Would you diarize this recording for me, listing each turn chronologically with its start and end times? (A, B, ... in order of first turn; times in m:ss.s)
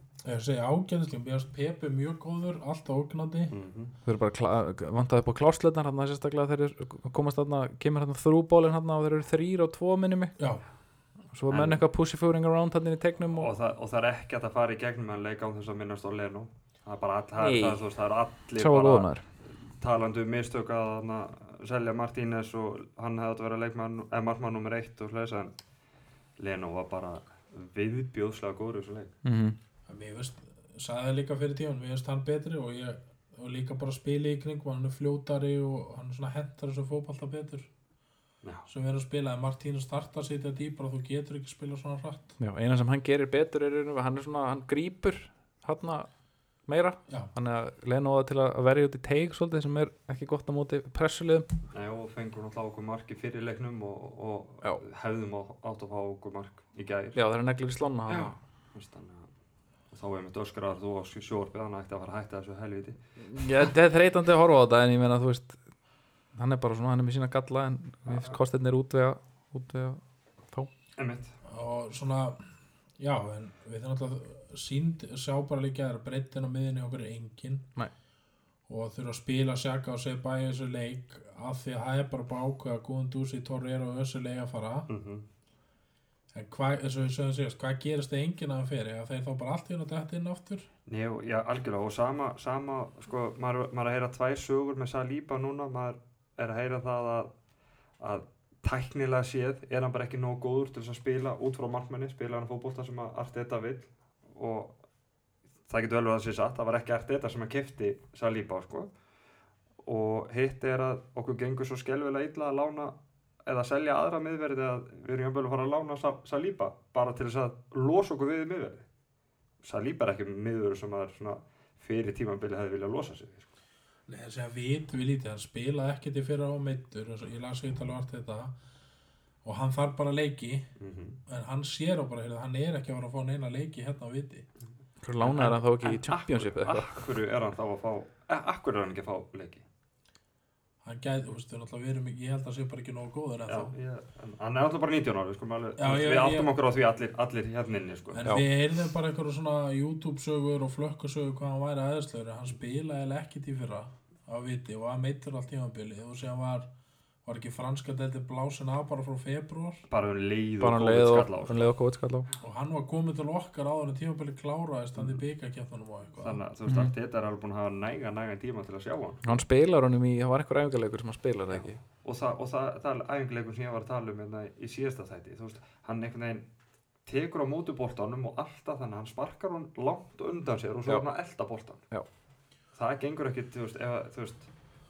0:00.2-0:03.6 A
0:03.5-0:03.9 B
0:04.1-0:10.4 C
0:10.4-0:10.6 A
0:11.3-0:13.5 C
0:11.5-0:11.8 B
0:13.3-0:25.5 B
0:17.4-0:17.8 C
0:18.6-0:19.2 C
0:26.4-0:29.1 B
0:29.2-0:29.6 C
0:29.9-0:37.7 A
0:38.7-0:42.4 A
0:42.4-0:46.1 C
0:46.7-0:51.5 C
0:51.7-0:57.2 B
0:57.2-0:58.3 C
0:58.1-0:59.3 B
0:59.9-1:03.0 B
1:03.2-1:05.6 C
1:06.4-1:10.7 C
1:08.1-1:08.4 B
1:11.0-1:11.4 B
1:11.4-1:12.4 A
1:13.0-1:17.7 A
1:18.7-1:24.9 A
1:24.9-1:25.3 B
1:26.3-1:30.7 A
1:30.9-1:37.3 B
1:38.0-1:44.8 B
1:45.7-1:48.9 B
1:49.8-1:58.9 B
1:59.6-2:03.5 B
2:04.1-2:08.6 A
2:09.4-2:10.7 A
2:10.8-2:11.2 B
2:11.3-2:14.5 A
2:15.0-2:17.1 C
2:15.2-2:19.6 B
2:20.8-2:23.7 A
2:23.5-2:28.2 B
2:25.8-2:26.5 A
2:28.1-2:36.7 A
2:37.2-2:39.8 A
2:39.9-2:41.7 B
2:40.6-2:42.3 C
2:42.4-2:46.4 A
2:45.0-2:45.2 B
2:46.2-2:49.4 B
2:49.2-2:51.8 C
2:51.5-2:56.5 B
2:57.1-3:01.8 B
3:02.8-3:04.5 B